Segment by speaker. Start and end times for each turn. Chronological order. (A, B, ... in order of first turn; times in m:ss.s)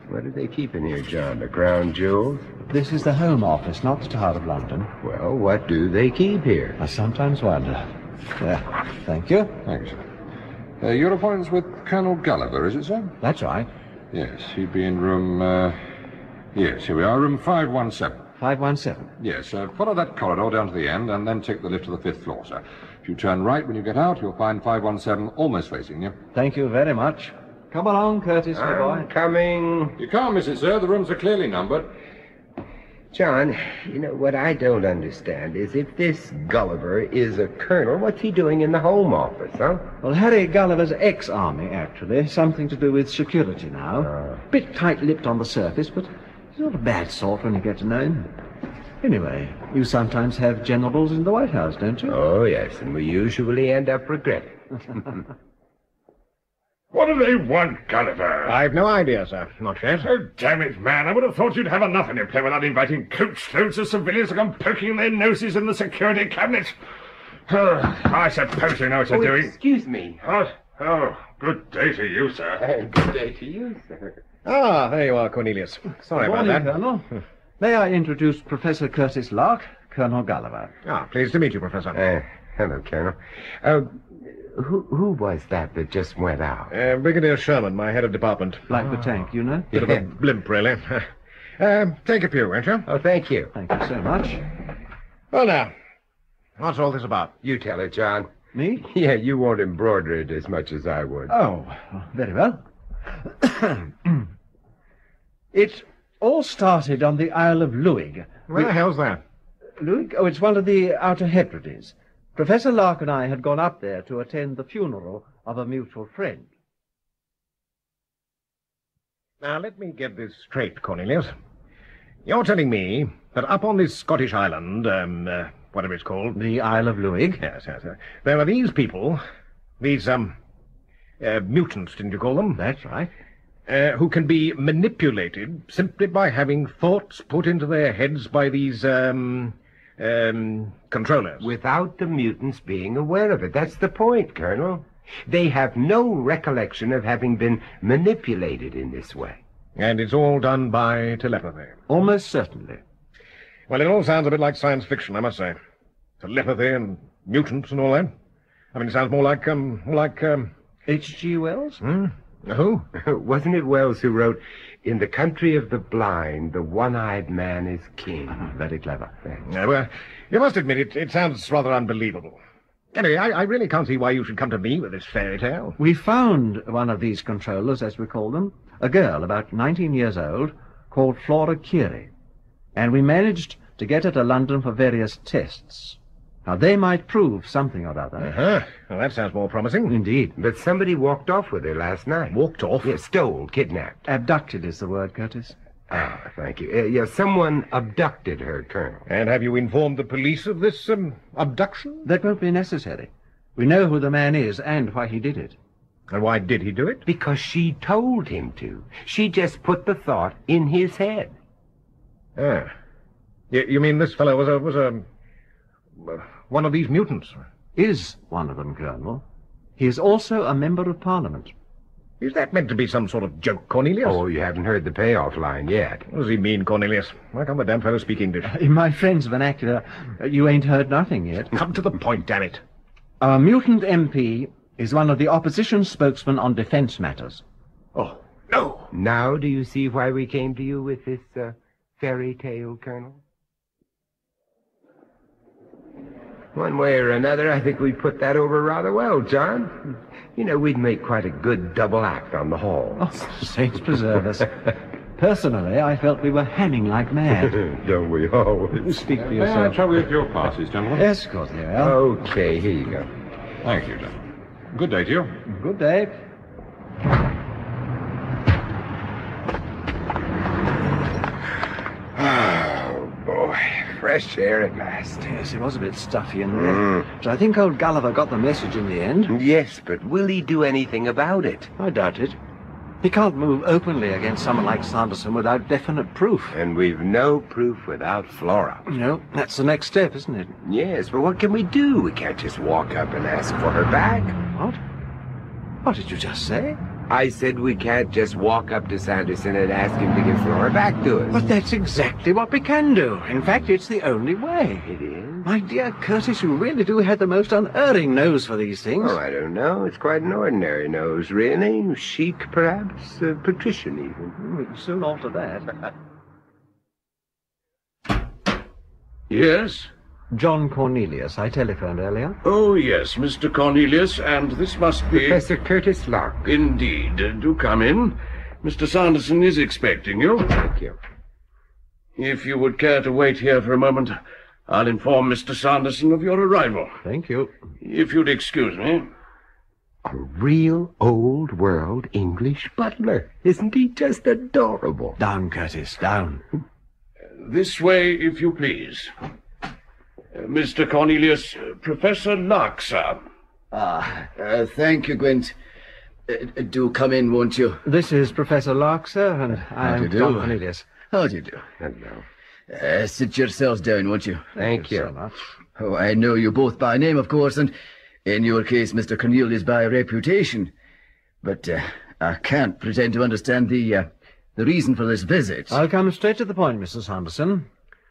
0:00.1-0:02.4 A
0:02.6-0:04.9 B
0:05.0-0:06.8 A
0:06.8-0:09.6 B
0:09.6-0:10.0 C
0:10.8-0:13.1 C
0:13.2-0:13.7 B
0:14.1-0:15.8 C
0:16.5-0:18.3 C
0:18.4-0:19.1 B
0:19.2-0:26.2 C
0:26.3-0:29.1 B
0:28.5-0:30.0 A
0:30.0-0:31.9 C
0:33.1-0:39.9 A
0:40.0-0:48.3 B
0:44.0-0:44.4 A
0:49.0-0:52.2 B
0:52.0-0:55.1 A
0:57.0-0:58.4 D
0:58.4-1:00.1 E
1:00.3-1:01.0 D
1:04.6-1:06.4 D
1:07.5-1:09.3 D
1:09.1-1:10.5 A
1:10.8-1:12.6 D
1:12.5-1:14.2 A
1:14.4-1:16.7 E
1:16.2-1:17.1 B
1:17.6-1:20.7 B
1:20.8-1:22.0 E
1:21.9-1:26.7 A
1:26.7-1:28.7 E
1:28.7-1:29.8 B
1:29.7-1:31.1 E
1:29.7-1:30.0 A
1:31.6-1:32.8 E
1:32.8-1:33.5 A
1:33.5-1:34.4 B
1:35.3-1:35.7 E
1:36.6-1:37.3 E
1:37.4-1:41.3 A
1:38.5-1:38.8 B
1:41.3-1:42.6 B
1:43.2-1:44.2 B
1:45.5-1:48.6 B
1:48.5-1:49.2 E
1:49.8-1:56.5 B
1:59.4-2:01.3 E
2:02.2-2:06.4 E
2:06.3-2:07.4 B
2:07.4-2:09.2 E
2:09.8-2:10.4 E
2:11.2-2:12.6 E
2:12.6-2:13.1 B
2:13.7-2:21.4 E
2:21.4-2:29.4 A
2:29.8-2:31.8 E
2:31.9-2:32.8 B
2:33.7-2:35.6 E
2:36.2-2:38.1 E
2:38.7-2:40.5 E
2:40.9-2:41.8 B
2:41.8-2:42.8 E
2:42.9-2:48.5 A
2:48.3-2:49.1 B
2:49.4-2:52.4 E
2:52.9-2:55.8 E
2:55.8-3:02.1 B
3:02.7-3:08.3 B
3:08.2-3:10.0 E
3:09.9-3:10.3 B
3:10.4-3:14.0 A
3:12.3-3:12.9 E
3:14.0-3:15.6 B
3:15.9-3:19.1 A
3:19.1-3:22.0 E
3:22.0-3:25.6 B
3:26.1-3:27.0 E
3:27.0-3:31.4 A
3:32.4-3:32.7 E
3:33.5-3:35.0 E
3:36.0-3:37.4 E
3:37.8-3:39.2 B
3:39.8-3:41.5 B
3:42.2-3:44.2 E
3:44.0-3:46.0 A
3:46.1-3:48.5 E
3:48.4-3:51.5 B
3:51.5-3:52.6 E
3:53.2-3:57.4 B
3:57.9-3:58.9 E
3:58.9-4:03.2 A
4:06.5-4:09.8 A
4:10.4-4:13.1 A
4:13.0-4:14.6 B
4:15.2-4:17.6 B
4:17.4-4:18.9 A
4:18.8-4:19.8 B
4:19.1-4:21.1 C
4:20.9-4:22.0 B
4:21.8-4:23.1 A
4:23.6-4:24.2 C
4:24.7-4:25.4 C
4:25.4-4:26.2 B
4:32.1-4:35.3 A
4:35.2-4:39.3 B
4:36.5-4:37.0 A
4:39.3-4:41.7 A
4:41.8-4:42.4 B
4:43.0-4:46.6 B
4:46.5-4:48.9 A
4:48.9-4:50.6 B
4:50.6-4:54.4 A
4:54.5-4:54.8 B
4:55.8-4:56.8 B
4:57.1-5:01.5 A
5:01.3-5:04.9 B
5:04.8-5:05.5 A
5:05.4-5:09.2 B
5:09.0-5:14.3 A
5:14.4-5:15.8 B
5:19.3-5:19.9 F
5:20.3-5:22.4 B
5:22.4-5:25.4 F
5:25.1-5:26.5 A
5:26.4-5:30.5 F
5:30.5-5:31.0 A
5:32.2-5:37.0 F
5:37.0-5:37.5 B
5:37.8-5:39.1 F
5:40.0-5:45.2 A
5:45.2-5:46.4 B
5:47.4-5:49.1 F
5:50.3-5:53.2 F
5:53.7-5:55.5 G
5:56.3-5:57.8 G
5:57.8-6:00.9 B
5:59.8-6:00.6 G
6:01.1-6:01.6 G
6:01.8-6:02.2 A
6:02.7-6:04.5 G
6:04.5-6:05.3 B
6:04.6-6:05.1 A
6:05.8-6:07.7 G
6:08.2-6:10.7 G
6:11.4-6:15.8 G
6:15.7-6:17.7 B